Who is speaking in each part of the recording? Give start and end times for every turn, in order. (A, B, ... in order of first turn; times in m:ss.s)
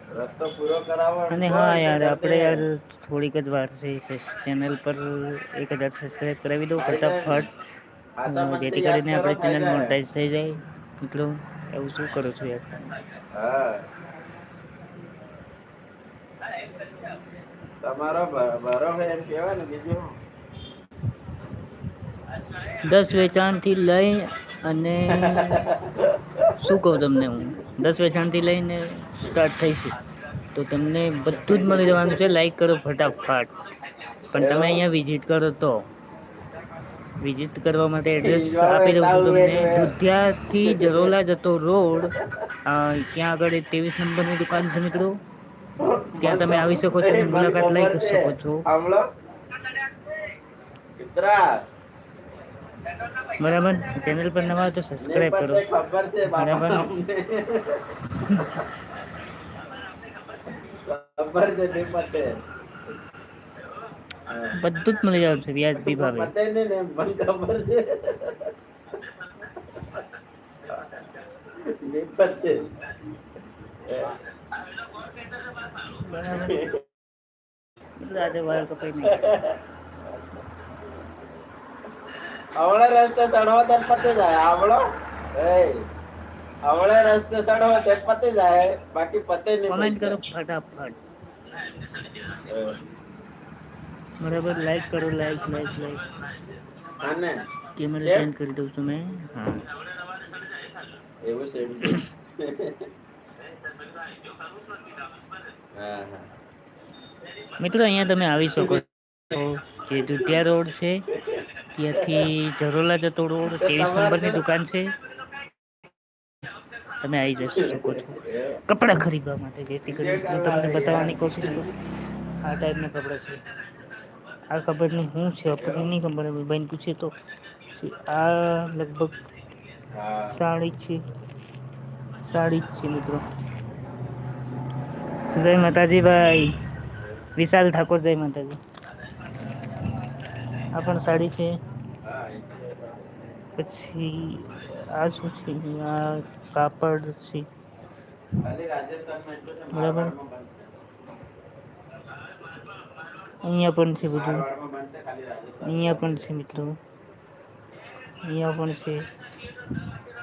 0:00.1-0:02.6 A
0:01.3-0:07.5 B
0:06.8-0:07.4 A
0:08.2-0:10.0 A
0:08.3-0:12.8 B
0:13.3-0:13.8 A
0:17.8-0:20.2 A
0:22.8-0:25.7 B
0:25.1-0:26.5 A
0:26.6-0:29.9 B
0:30.5-0:33.5 B
0:31.5-0:32.2 A
0:34.3-0:35.9 B
0:34.3-0:34.8 A
0:37.2-0:45.2 B
0:38.1-0:40.0 A
0:40.6-0:41.1 A
0:42.2-0:42.4 A
0:45.8-0:49.1 A
0:46.2-0:48.6 B
0:51.0-0:51.5 A
0:53.4-0:55.6 B
0:55.0-0:58.5 A
0:56.3-0:56.9 B
0:58.3-0:58.6 B
1:00.6-1:02.4 A
1:04.2-1:04.5 A
1:04.6-1:06.3 B
1:05.8-1:08.5 A
1:09.7-1:10.0 A
1:11.6-1:12.7 A
1:13.8-1:14.2 A
1:15.9-1:16.6 B
1:16.3-1:16.8 A
1:18.0-1:19.2 B
1:19.0-1:19.6 A
1:22.6-1:25.9 A
1:26.6-1:30.2 A
1:29.7-1:31.0 B
1:32.4-1:32.8 A
1:34.2-1:36.0 B
1:37.0-1:37.4 A
1:37.8-1:39.7 B
1:38.0-1:38.3 A
1:41.2-1:42.9 A
1:45.7-1:46.3 A
1:47.6-1:51.0 B
1:48.5-1:49.3 A
1:50.0-1:50.4 A
1:51.1-1:52.3 A
1:51.7-1:54.9 B
1:53.4-1:54.4 A
1:57.0-2:01.7 B
1:57.4-1:58.6 A
1:59.9-2:01.7 A
2:02.4-2:03.4 B
2:04.5-2:07.1 B
2:05.6-2:05.9 A
2:07.7-2:09.2 B
2:09.9-2:10.4 A
2:10.3-2:11.0 B
2:12.2-2:13.2 B
2:15.3-2:16.5 B
2:17.4-2:18.6 B
2:20.7-2:21.5 B
2:22.0-2:23.3 A
2:23.6-2:27.5 B
2:28.4-2:30.8 A
2:29.7-2:30.1 B
2:33.4-2:34.4 B
2:34.1-2:36.3 A
2:35.6-2:36.7 B
2:38.2-2:39.0 B